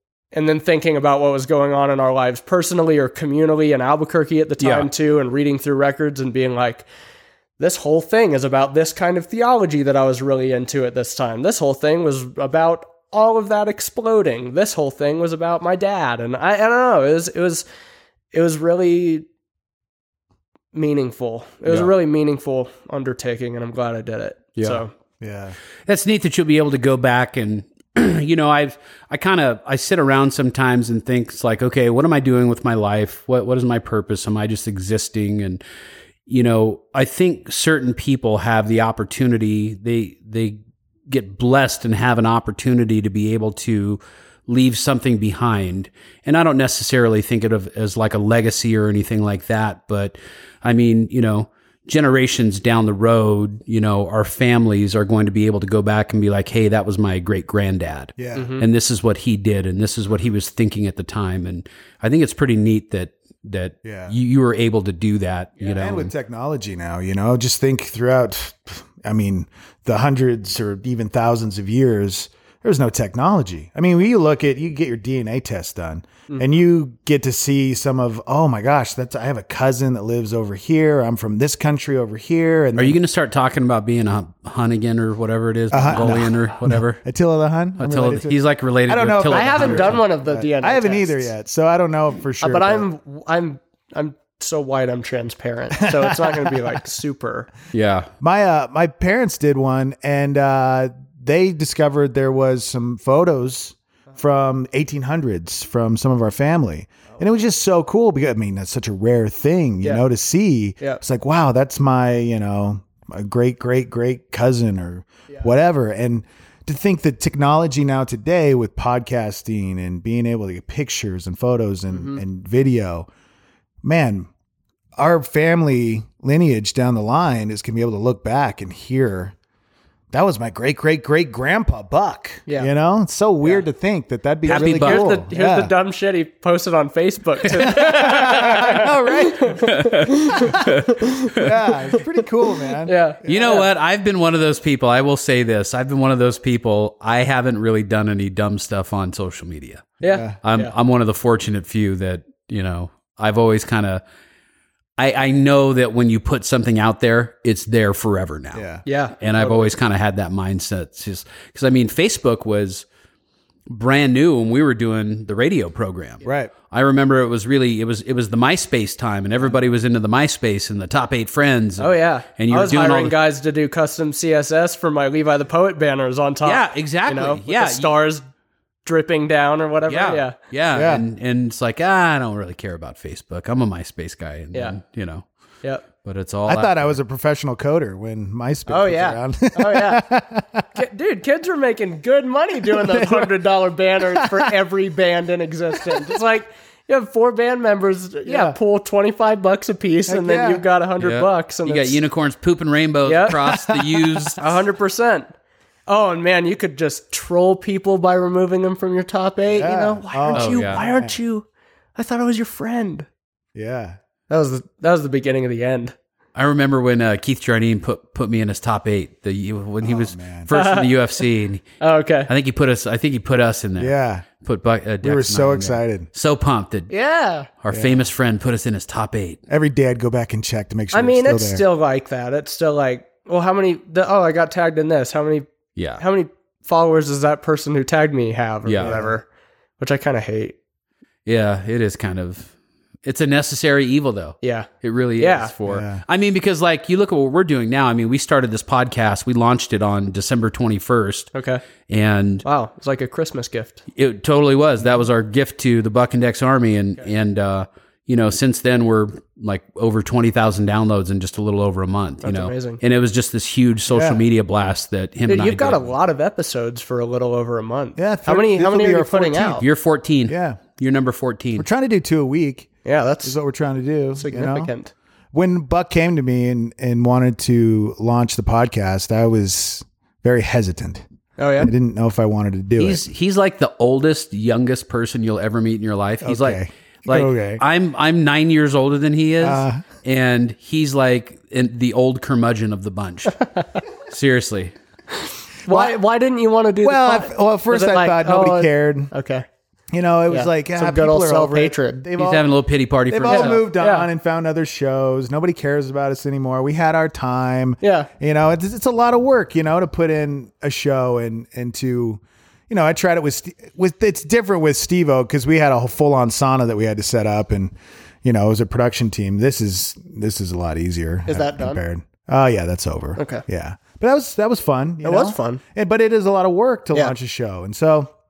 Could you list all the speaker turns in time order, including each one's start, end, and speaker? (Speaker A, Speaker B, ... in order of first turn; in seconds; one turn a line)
Speaker A: 0.3-6.8
Speaker B: 4.6-4.9
Speaker A: 7.6-17.6
Speaker A: 18.3-19.2
Speaker A: 20.7-24.9
Speaker B: 24.6-24.8
Speaker C: 25.2-25.6
Speaker B: 25.9-35.6
Speaker B: 36.3-66.1
Speaker C: 58.2-58.5
Speaker A: 58.4-58.6
Speaker C: 63.8-64.1
Speaker C: 65.6-83.0
Speaker B: 82.8-87.0
Speaker C: 85.7-92.9
Speaker B: 87.8-90.0
Speaker A: 89.3-91.3
Speaker A: 92.4-97.5
Speaker C: 95.8-96.8
Speaker B: 97.7-98.1
Speaker C: 98.2-123.1
Speaker A: 121.9-122.2
Speaker C: 123.8-124.3
Speaker C: 125.0-129.3
Speaker C: 130.1-135.7
Speaker B: 134.5-135.1
Speaker A: 134.5-141.3
Speaker C: 137.5-139.8
Speaker B: 139.7-141.4
Speaker C: 141.3-143.6
Speaker A: 141.9-143.7
Speaker B: 143.3-154.0
Speaker A: 150.0-150.7
Speaker C: 150.1-150.4
Speaker B: 155.0-158.6
Speaker C: 158.5-158.8
Speaker A: 158.8-159.7
Speaker B: 159.2-162.8
Speaker B: 163.7-173.1
Speaker C: 166.2-166.5
Speaker A: 171.8-178.2
Speaker B: 176.4-177.9
Speaker A: 178.8-180.3
Speaker B: 179.9-185.2
Speaker C: 180.7-181.0
Speaker B: 186.0-187.0
Speaker C: 186.5-190.7
Speaker A: 188.7-190.0
Speaker A: 190.7-202.0
Speaker C: 192.7-193.4
Speaker C: 194.1-194.5
Speaker C: 195.8-196.1
Speaker C: 198.2-198.6
Speaker C: 200.1-200.6
Speaker B: 201.0-204.4
Speaker A: 203.1-203.6
Speaker C: 203.5-204.0
Speaker A: 204.4-205.3
Speaker A: 205.9-211.4
Speaker C: 209.5-211.2
Speaker B: 210.3-210.8
Speaker A: 211.9-213.1
Speaker C: 213.5-214.0
Speaker A: 214.3-215.9
Speaker B: 216.3-221.6
Speaker C: 219.8-220.5
Speaker A: 220.5-221.0
Speaker A: 221.8-222.3
Speaker B: 222.3-226.9
Speaker C: 223.8-224.2
Speaker C: 225.0-226.1
Speaker A: 226.9-227.5
Speaker B: 227.6-229.4
Speaker C: 227.7-228.1
Speaker C: 229.5-231.6
Speaker A: 230.9-235.5
Speaker B: 235.8-236.0
Speaker A: 236.0-239.2
Speaker B: 238.6-238.9
Speaker C: 238.8-239.1
Speaker A: 239.8-240.5
Speaker B: 241.2-242.5
Speaker B: 243.0-251.3
Speaker A: 244.4-245.5
Speaker C: 245.7-246.0
Speaker A: 251.3-251.6
Speaker B: 251.9-252.4
Speaker A: 252.4-253.8
Speaker B: 253.9-265.9
Speaker A: 262.2-262.8
Speaker C: 263.9-264.2
Speaker A: 265.3-269.6
Speaker C: 268.0-269.6
Speaker B: 269.6-271.6
Speaker C: 270.3-270.6
Speaker C: 271.6-274.7
Speaker A: 272.8-273.4
Speaker A: 274.2-274.9
Speaker C: 275.3-281.0
Speaker A: 281.4-281.7
Speaker C: 281.6-283.0
Speaker B: 282.8-293.4
Speaker C: 286.2-287.6
Speaker C: 289.4-289.9
Speaker B: 294.1-294.7
Speaker A: 295.6-299.5
Speaker C: 295.7-295.9
Speaker C: 296.8-299.1
Speaker C: 299.9-302.5
Speaker A: 300.3-302.0
Speaker B: 302.1-303.7
Speaker C: 303.1-328.1
Speaker A: 303.3-304.1
Speaker A: 307.8-308.1
Speaker A: 321.2-321.8
Speaker A: 323.2-323.4
Speaker A: 325.0-325.6